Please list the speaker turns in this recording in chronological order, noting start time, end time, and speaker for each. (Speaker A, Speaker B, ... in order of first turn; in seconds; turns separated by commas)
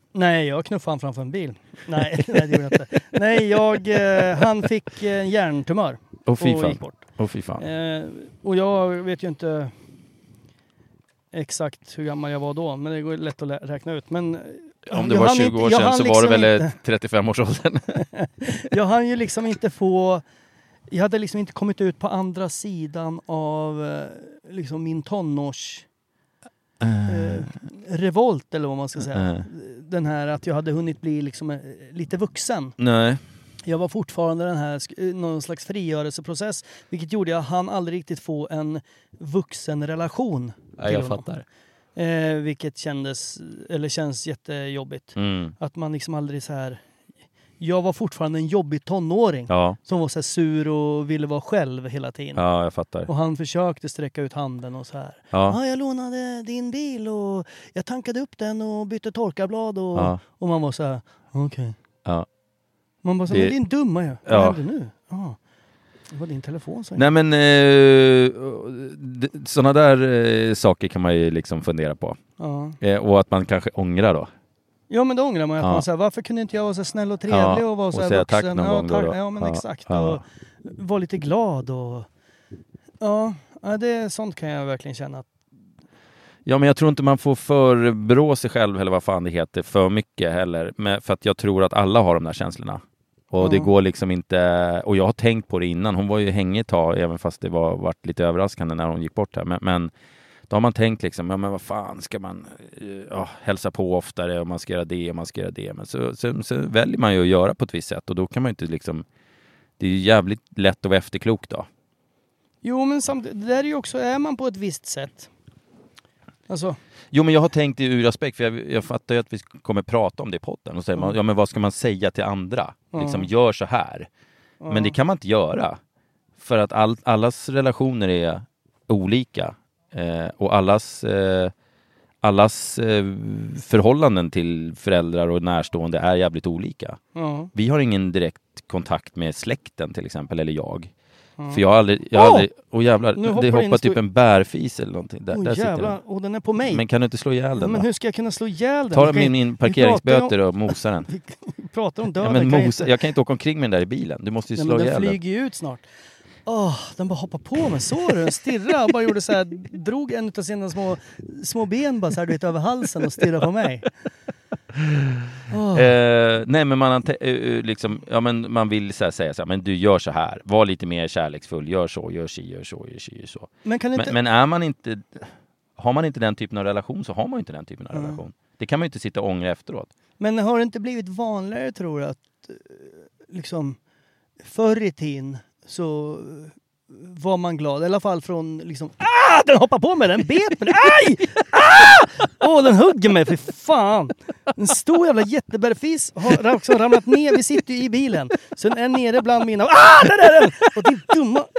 Speaker A: 0.1-7.0, Speaker B: 6.3-7.6, Speaker A: 7.6-9.7, Speaker A: 11.3-16.7, Speaker B: 14.9-18.1, Speaker A: 18.0-20.2, Speaker A: 20.9-25.9, Speaker B: 26.8-27.6, Speaker A: 27.1-32.8, Speaker B: 29.1-29.5, Speaker B: 32.8-33.2, Speaker A: 33.7-41.2, Speaker B: 40.8-41.4, Speaker A: 42.0-46.8, Speaker B: 45.2-45.6, Speaker A: 47.6-52.4, Speaker B: 49.5-49.8, Speaker B: 52.4-53.1, Speaker A: 53.1-61.8, Speaker B: 55.3-55.6, Speaker B: 60.0-60.2, Speaker A: 63.0-65.4, Speaker B: 63.3-63.6, Speaker B: 64.2-64.6, Speaker A: 66.1-67.0, Speaker B: 67.0-72.2, Speaker A: 72.4-72.8, Speaker B: 72.8-74.3, Speaker A: 74.9-82.1, Speaker B: 77.3-80.2, Speaker A: 83.0-85.3, Speaker B: 86.5-99.9, Speaker A: 93.4-93.7, Speaker B: 100.5-109.0, Speaker B: 109.8-111.7, Speaker A: 112.6-115.3, Speaker A: 116.5-116.8, Speaker B: 117.1-124.1, Speaker A: 122.9-123.3, Speaker A: 124.6-125.0, Speaker B: 124.7-125.8, Speaker B: 126.4-131.5, Speaker B: 132.2-137.0, Speaker A: 137.2-137.5, Speaker B: 137.6-140.9, Speaker B: 141.5-146.0, Speaker A: 142.1-142.5, Speaker A: 143.2-144.0, Speaker A: 145.3-146.8, Speaker B: 146.7-147.9, Speaker A: 147.6-150.4, Speaker B: 148.9-151.1, Speaker A: 151.1-152.9, Speaker B: 152.2-155.2, Speaker A: 154.6-155.9, Speaker A: 156.5-163.9, Speaker A: 165.5-165.9, Speaker B: 165.7-179.9, Speaker A: 173.7-174.2, Speaker A: 177.9-178.2, Speaker A: 180.2-183.8, Speaker A: 184.4-201.5